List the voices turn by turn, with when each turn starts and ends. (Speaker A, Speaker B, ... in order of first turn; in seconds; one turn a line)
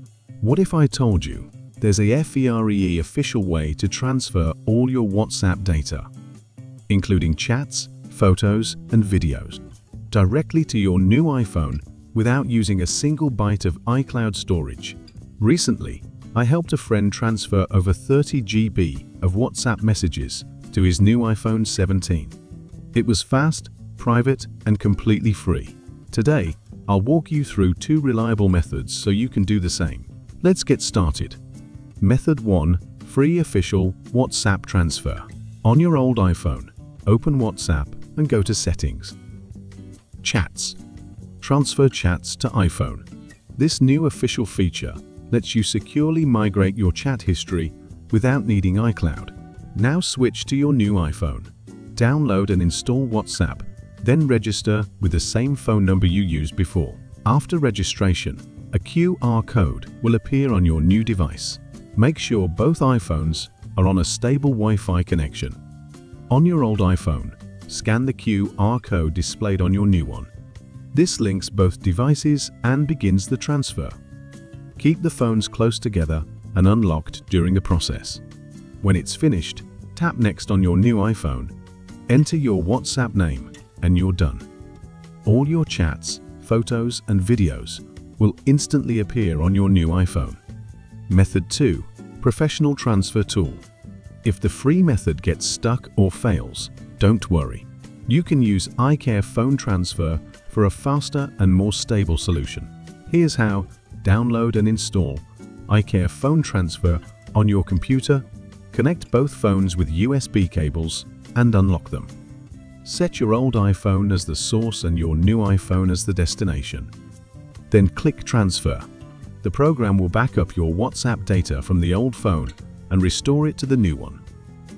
Speaker A: 0.4-6.1
Speaker A: 6.9-22.4
Speaker A: 22.9-31.4
Speaker A: 32.0-39.1
Speaker A: 40.2-40.8
Speaker A: 41.4-65.6
Speaker A: 66.3-70.3
Speaker A: 70.9-74.0
Speaker A: 74.8-78.2
Speaker A: 78.8-81.5
Speaker A: 82.1-84.5
Speaker A: 85.2-90.4
Speaker A: 91.1-93.6
Speaker A: 94.2-112.1
Speaker A: 112.8-116.9
Speaker A: 117.7-118.8
Speaker A: 119.4-124.2